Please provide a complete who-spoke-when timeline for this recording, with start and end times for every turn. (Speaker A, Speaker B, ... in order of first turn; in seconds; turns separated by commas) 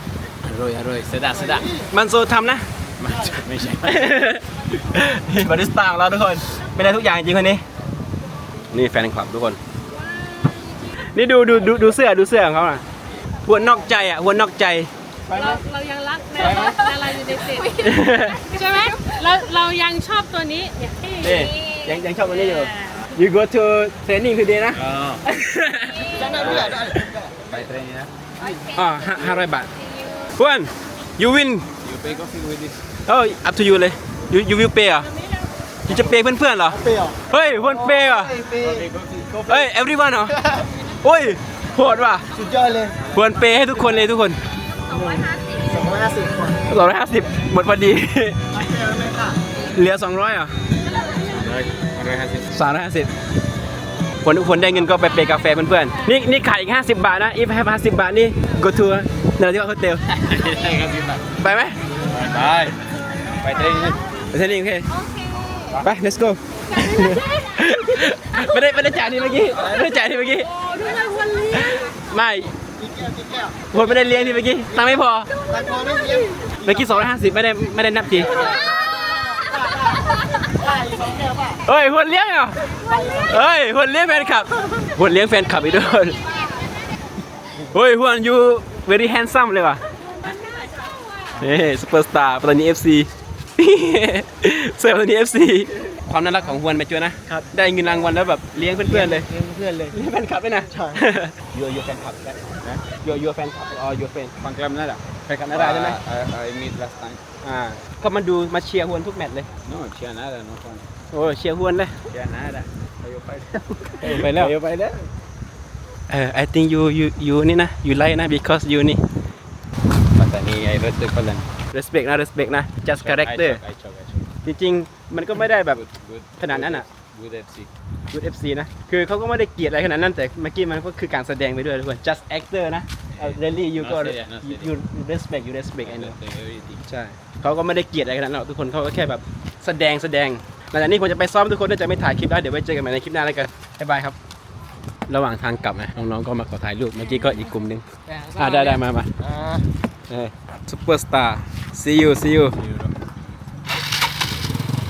Speaker A: 0.4-1.7, Speaker B: 1.4-1.9, Speaker C: 1.9-3.3, Speaker A: 3.0-4.1, Speaker C: 3.8-7.6, Speaker C: 8.7-9.6, Speaker D: 10.1-10.8, Speaker C: 11.1-12.8, Speaker C: 13.4-15.6, Speaker D: 15.3-23.1, Speaker C: 16.4-16.7, Speaker B: 16.4-16.8, Speaker C: 17.8-18.4, Speaker C: 21.2-27.0, Speaker A: 24.7-25.2, Speaker B: 26.1-27.7, Speaker A: 26.2-26.9, Speaker A: 27.4-28.1, Speaker D: 28.4-30.3, Speaker C: 28.7-29.7, Speaker C: 30.4-31.7, Speaker A: 31.8-32.8, Speaker C: 33.1-35.1, Speaker D: 35.1-35.5, Speaker C: 35.9-38.3, Speaker B: 36.7-38.9, Speaker A: 38.6-39.7, Speaker C: 39.5-40.3, Speaker B: 40.3-40.7, Speaker C: 41.0-42.2, Speaker B: 42.3-43.1, Speaker C: 43.1-44.4, Speaker D: 44.9-45.8, Speaker B: 44.9-46.6, Speaker C: 46.7-48.4, Speaker B: 48.5-49.4, Speaker C: 49.7-50.5, Speaker A: 51.2-52.5, Speaker C: 52.5-53.1, Speaker C: 54.2-60.1, Speaker A: 60.1-61.4, Speaker C: 61.4-61.8, Speaker A: 62.0-62.8, Speaker A: 63.4-64.0, Speaker C: 64.3-64.9, Speaker D: 65.0-65.8, Speaker C: 65.8-70.5, Speaker D: 66.7-67.3, Speaker D: 70.5-71.9, Speaker C: 71.5-72.5, Speaker B: 72.8-77.0, Speaker C: 73.7-75.3, Speaker C: 76.7-78.5, Speaker B: 78.2-81.6, Speaker D: 78.7-79.0, Speaker C: 81.7-82.6, Speaker B: 82.8-83.4, Speaker C: 83.3-86.2, Speaker C: 87.6-89.8, Speaker D: 90.2-91.0, Speaker C: 91.4-99.3, Speaker B: 98.8-100.0, Speaker C: 99.9-101.4, Speaker B: 100.7-101.0, Speaker A: 101.5-102.8, Speaker C: 102.9-104.3, Speaker A: 104.4-107.2, Speaker C: 105.3-106.0, Speaker C: 107.4-109.5, Speaker A: 109.6-110.9, Speaker C: 111.1-112.0, Speaker A: 112.1-115.1, Speaker C: 113.9-114.5, Speaker C: 116.1-119.0, Speaker A: 120.1-121.6, Speaker C: 121.7-123.6, Speaker A: 122.9-124.3, Speaker C: 124.4-125.8, Speaker A: 125.6-127.7, Speaker C: 126.4-126.8, Speaker C: 128.1-136.2, Speaker A: 133.2-134.7, Speaker A: 135.8-136.9, Speaker C: 136.9-144.2, Speaker C: 145.1-149.2, Speaker A: 148.1-149.6, Speaker C: 150.1-152.6, Speaker A: 152.5-153.1